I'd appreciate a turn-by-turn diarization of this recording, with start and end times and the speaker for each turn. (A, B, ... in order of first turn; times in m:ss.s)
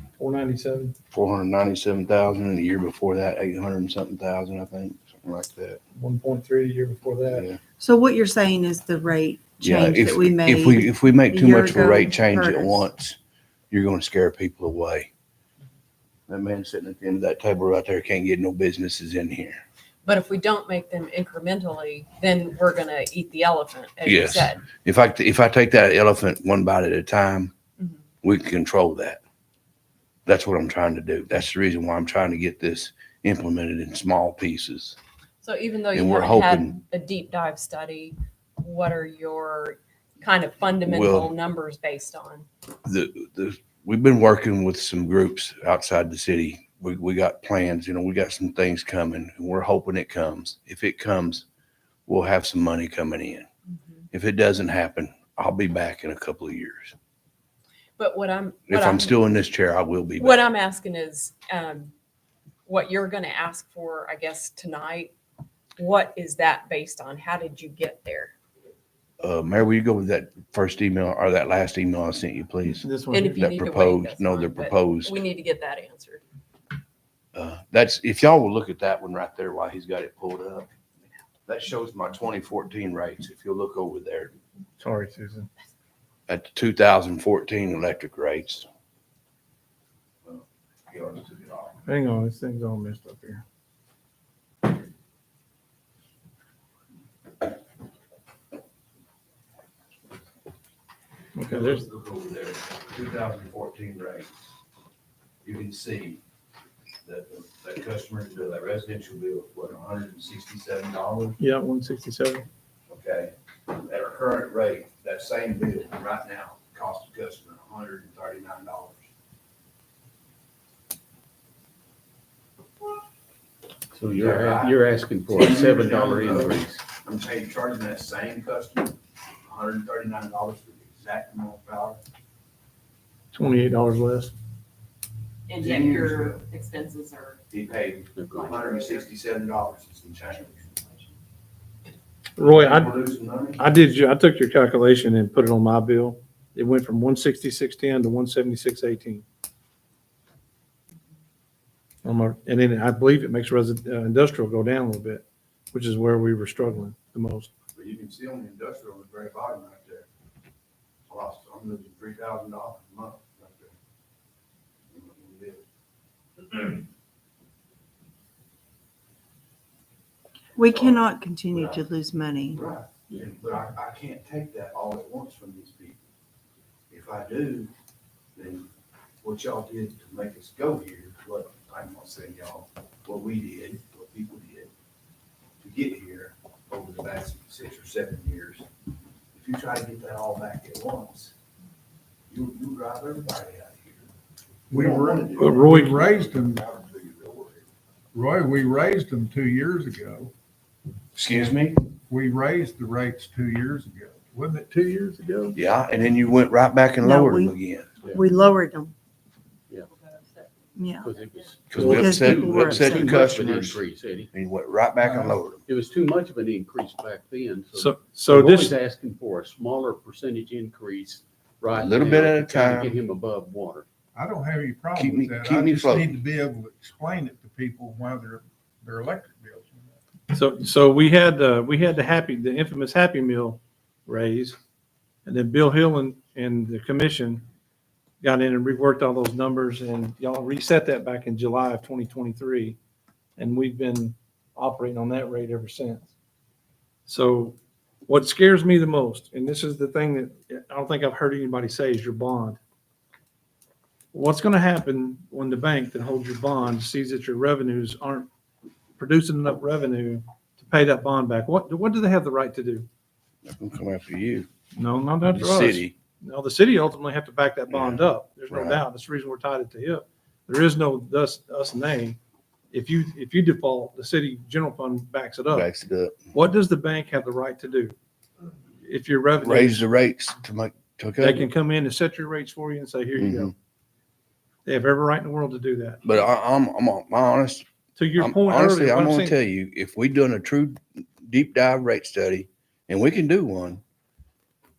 0:00.2-0:00.9 A
0:01.1-0:05.8 B
0:06.0-0:07.5 A
0:07.3-0:07.6 B
0:07.8-0:12.8 C
0:09.6-0:13.2 B
0:13.7-0:15.1 B
0:16.3-0:19.6 B
0:20.0-0:24.7 D
0:24.0-0:27.5 B
0:28.2-0:29.2 B
0:30.3-0:35.0 B
0:35.4-0:42.5 D
0:35.9-0:36.8 B
0:40.9-0:41.3 B
0:42.8-0:51.4 B
0:52.1-0:53.5 B
0:54.1-0:57.0 B
0:58.0-0:59.2 D
0:58.7-1:00.4 B
1:00.2-1:01.9 D
1:02.7-1:05.1 D
1:05.8-1:08.3 D
1:09.2-1:12.9 B
1:12.8-1:13.4 A
1:13.1-1:16.2 D
1:13.4-1:15.2 B
1:17.4-1:20.7 B
1:21.5-1:24.3 B
1:24.8-1:25.5 A
1:26.3-1:28.7 B
1:30.2-1:31.8 B
1:31.9-1:33.4 A
1:41.4-1:41.8 A
1:41.5-1:44.3 B
1:45.4-1:46.2 B
1:47.0-1:51.4 B
1:51.4-1:52.5 A
1:52.9-1:59.1 B
2:03.9-2:06.8 E
2:04.1-2:04.8 B
2:05.3-2:12.0 B
2:13.3-2:14.3 A
2:15.5-2:17.4 D
2:15.6-2:16.4 B
2:17.5-2:21.0 B
2:18.2-2:18.6 E
2:22.4-2:22.9 A
2:22.4-2:23.6 B
2:23.6-2:29.2 A
2:32.0-2:37.5 A
2:37.8-2:40.1 B
2:41.1-2:43.7 B
2:44.9-2:45.6 B
2:50.6-2:52.6 C
2:50.6-2:51.0 B
2:51.5-2:51.8 B
2:52.5-2:56.0 B
2:56.9-2:57.7 B
2:58.4-2:58.7 B
2:59.2-3:04.7 B
3:05.6-3:08.7 B
3:09.3-3:11.3 B
3:12.3-3:14.1 B
3:14.7-3:16.6 F
3:14.7-3:17.6 B
3:15.4-3:16.1 A
3:18.1-3:20.3 F
3:21.2-3:21.8 B
3:22.1-3:25.6 F
3:25.6-3:27.9 B
3:27.0-3:27.5 C
3:28.1-3:28.9 C
3:30.8-3:31.1 C
3:31.0-3:34.3 E
3:31.7-3:33.8 B
3:31.8-3:33.2 C
3:34.3-3:35.6 B
3:35.0-3:35.4 F
3:35.7-3:43.9 E
3:37.7-3:38.7 A
3:41.7-3:43.0 B
3:44.2-3:49.8 F
3:45.0-3:46.2 B
3:50.3-3:54.6 A
3:55.3-3:57.4 A
3:58.2-4:02.8 A
4:03.4-4:06.1 A
4:07.1-4:12.6 A
4:14.1-4:18.3 A
4:19.0-4:22.9 A
4:23.5-4:24.5 B
4:24.8-4:32.2 A
4:25.2-4:25.9 B
4:27.7-4:28.8 B
4:32.7-4:35.7 A
4:35.5-4:36.2 B
4:36.3-4:38.0 A
4:38.8-4:39.9 A
4:39.4-4:41.5 B
4:41.2-4:43.5 A
4:43.2-4:43.5 B
4:44.7-4:46.0 A
4:46.0-4:47.7 B
4:48.0-4:49.4 A
4:48.2-4:53.8 B